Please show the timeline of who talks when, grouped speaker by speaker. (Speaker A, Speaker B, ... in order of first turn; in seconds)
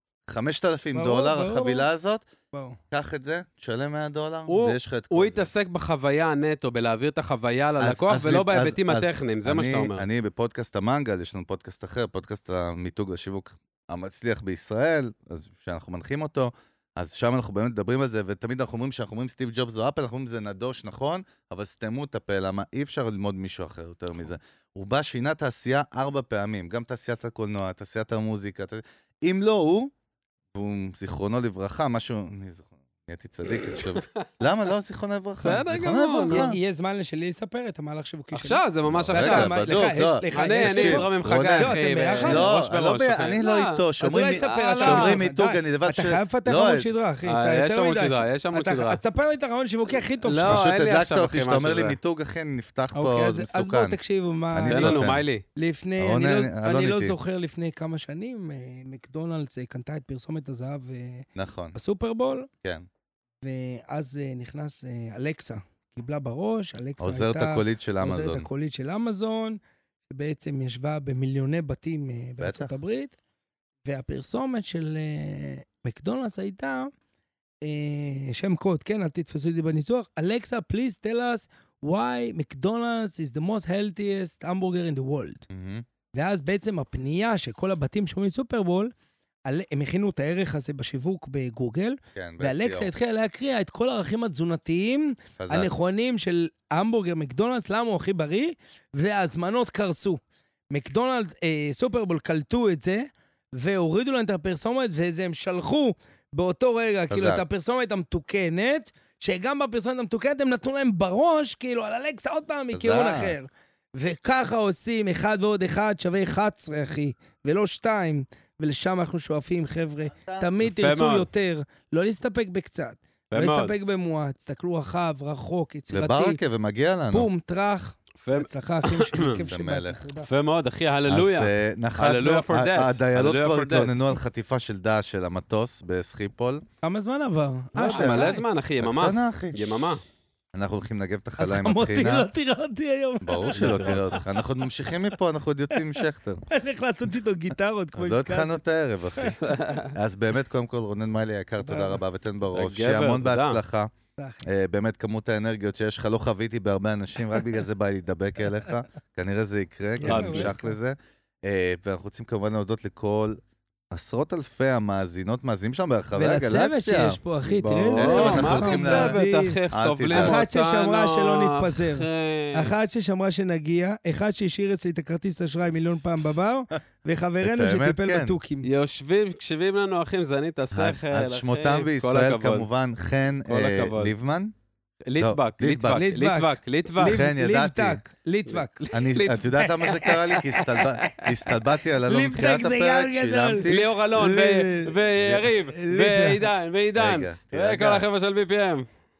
Speaker A: 0.3-2.3, 2.9-5.5, 7.8-29.9, 30.5-36.6, 38.9-47.0, 50.4-54.0, 54.5-55.2, 56.0-57.1, 61.3-61.8, 67.0-68.5, 72.4-72.7, 85.5-85.8, 92.1-92.9, 95.4-95.7, 107.1-107.4, 112.7-113.3, 120.1-120.5, 125.9-127.3, 129.3-130.0, 131.1-136.6, 137.7-139.7, 140.5-142.3, 143.2-146.4, 147.9-153.9, 154.4-163.4, 163.9-167.2, 167.8-170.4, 177.4-178.4, 180.7-184.5, 185.2-186.0, 187.0-188.0, 188.9-193.8, 195.2-195.5, 196.9-198.0
Speaker B: 0.9-1.9, 2.5-2.8, 36.2-38.6, 39.1-42.6, 44.0-50.6, 52.9-62.5, 63.4-69.6, 70.1-73.2, 73.8-76.9, 77.6-85.5, 86.1-88.9, 89.5-126.4, 127.1-130.3, 136.8-138.4, 141.4-144.3, 145.8-148.6, 149.1-149.4, 151.6-152.0, 154.2-154.5, 160.0-160.7, 166.1-169.6, 170.1-178.7, 185.9-188.8, 192.0-195.0, 195.7-196.4
Speaker C: 4.5-10.0, 33.6-34.1, 35.4-36.5, 38.3-39.5, 40.3-45.2, 47.2-49.0, 50.2-52.0, 54.7-55.4, 120.7-121.3, 123.3-123.7, 128.2-129.5, 130.3-134.2, 137.9-140.0, 143.6-144.0, 149.4-149.9, 152.5-153.6, 160.0-160.5, 167.5-172.7, 178.6-182.7, 183.5-184.1, 185.1-187.2, 188.5-191.4, 193.6-198.8